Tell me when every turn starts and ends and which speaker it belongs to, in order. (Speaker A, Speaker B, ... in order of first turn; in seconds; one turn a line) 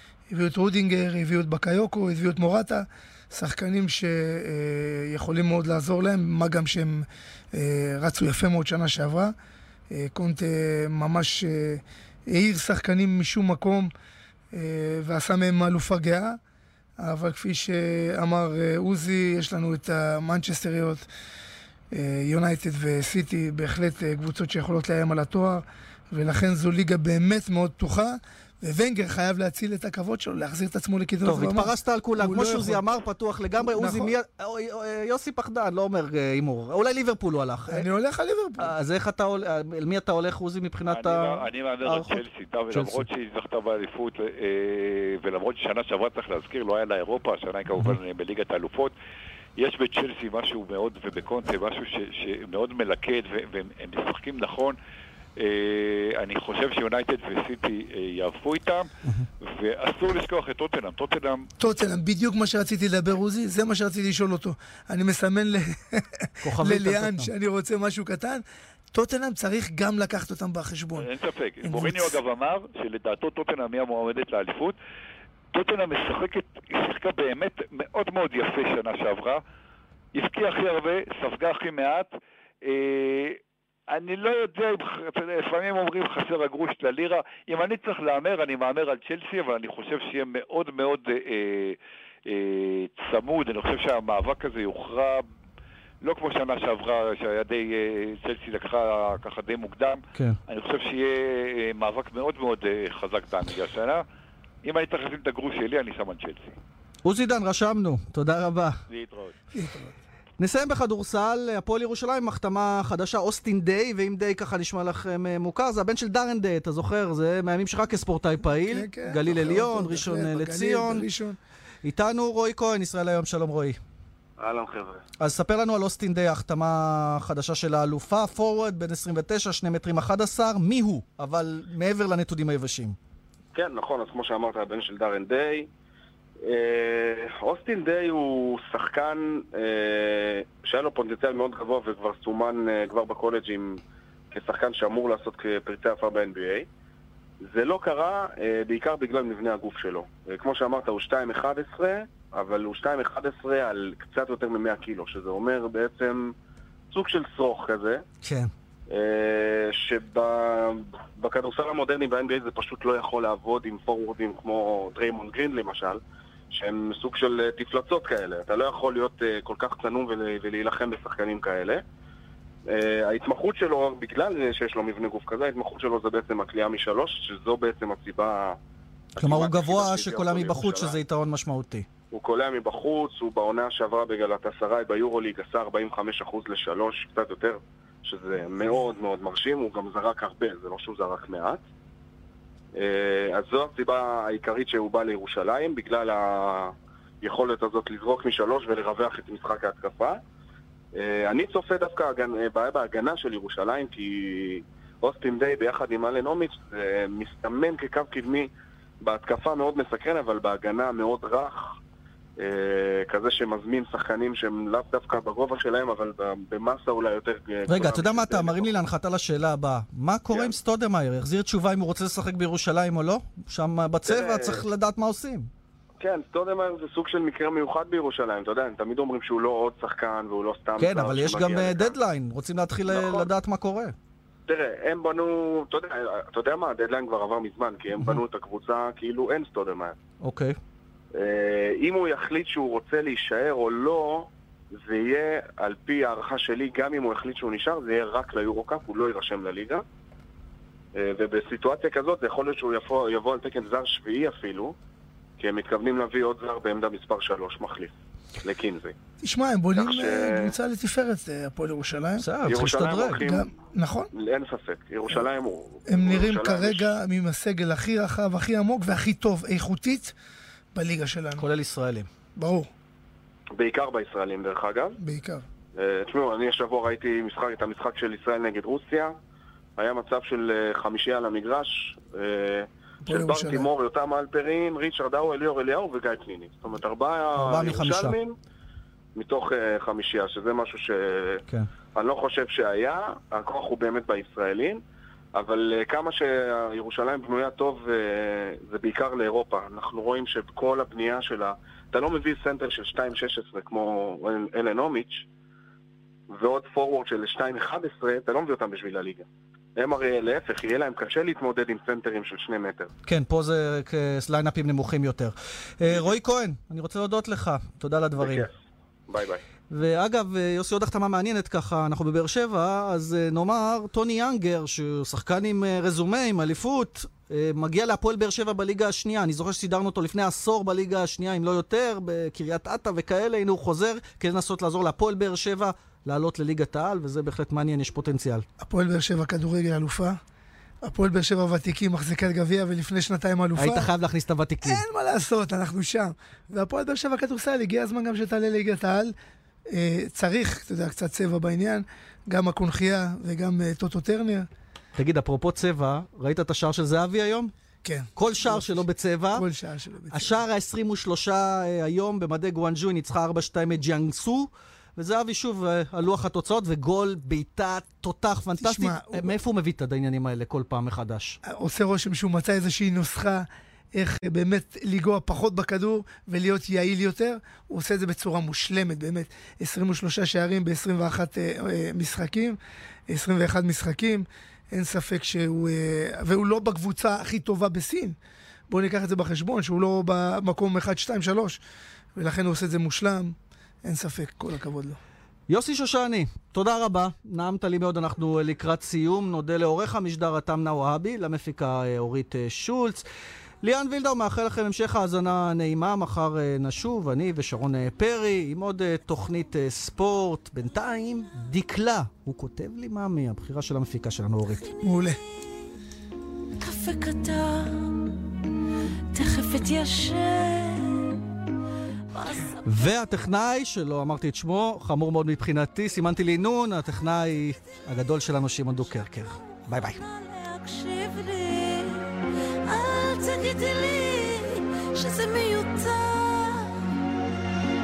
Speaker A: 0.3-9.3
Speaker A: 9.9-13.9
Speaker A: 14.5-16.4
Speaker A: 17.0-21.1
Speaker A: 21.9-32.8
Speaker B: 31.2-37.9
Speaker A: 33.6-34.1
Speaker A: 37.7-38.7
Speaker B: 38.6-43.0
Speaker C: 40.9-48.9
Speaker C: 49.6-54.8
Speaker C: 55.4-58.9
Speaker C: 59.4-61.5
Speaker A: 61.6-71.1
Speaker B: 66.4-67.3
Speaker C: 71.0-74.8
Speaker A: 71.6-72.2
Speaker C: 75.5-79.4
Speaker C: 80.1-82.1
Speaker C: 82.6-95.2
Speaker C: 96.0-104.0
Speaker B: 100.1-100.4
Speaker C: 104.6-106.5
Speaker B: 107.0-108.8
Speaker C: 108.9-109.3
Speaker A: 109.5-110.0
Speaker B: 110.4-121.0
Speaker A: 118.6-121.4
Speaker B: 121.8-123.8
Speaker D: 124.4-125.0
Speaker B: 125.2-132.9
Speaker D: 133.5-135.7
Speaker D: 136.4-146.7
Speaker D: 147.4-156.3
Speaker D: 156.9-158.0
Speaker B: 158.2-158.5
Speaker D: 158.9-166.0
Speaker D: 166.5-171.8
Speaker D: 172.7-178.6
Speaker D: 179.2-181.0
Speaker B: 179.2-181.9
Speaker D: 182.1-191.6
Speaker D: 192.8-200.2
Speaker D: 200.9-208.5
Speaker D: 209.0-211.7
Speaker D: 212.4-218.8
Speaker B: 217.7-225.5
Speaker D: 220.3-220.6
Speaker D: 224.0-224.6
Speaker D: 226.0-231.9
Speaker B: 230.8-233.9
Speaker D: 232.9-233.3
Speaker D: 234.5-239.9
Speaker B: 240.2-240.6
Speaker D: 241.2-249.8
Speaker D: 250.9-254.7
Speaker D: 255.4-257.9
Speaker D: 258.4-258.9
Speaker A: 259.2-262.3
Speaker D: 259.8-260.5
Speaker B: 262.2-263.2
Speaker D: 262.4-263.5
Speaker A: 263.2-264.1
Speaker D: 264.1-266.9
Speaker A: 265.9-270.1
Speaker A: 270.7-271.4
Speaker B: 271.4-272.1
Speaker A: 272.4-272.7
Speaker D: 273.5-275.0
Speaker A: 275.0-275.4
Speaker D: 275.8-279.1
Speaker D: 279.8-288.3
Speaker A: 283.0-283.7
Speaker B: 287.3-288.2
Speaker D: 289.1-291.4
Speaker D: 291.9-294.8
Speaker D: 295.3-305.2
Speaker D: 306.3-309.2
Speaker D: 309.8-312.9
Speaker B: 313.1-318.5
Speaker D: 315.9-316.1
Speaker D: 318.2-318.5
Speaker D: 319.1-319.4
Speaker B: 319.7-338.4
Speaker A: 338.6-340.2
Speaker A: 340.8-343.9
Speaker B: 343.6-344.8
Speaker A: 344.6-349.1
Speaker A: 349.7-354.5
Speaker B: 355.0-357.5
Speaker A: 357.8-360.4
Speaker B: 358.1-359.4
Speaker B: 360.1-371.4
Speaker A: 368.6-369.3
Speaker A: 371.4-388.1
Speaker A: 388.7-391.6
Speaker A: 392.1-395.0
Speaker B: 395.5-403.1
Speaker B: 403.6-414.7
Speaker A: 414.8-415.2
Speaker E: 416.6-418.1
Speaker E: 419.1-421.2
Speaker E: 422.1-422.9
Speaker B: 422.6-430.0
Speaker E: 429.0-432.0
Speaker E: 432.7-436.7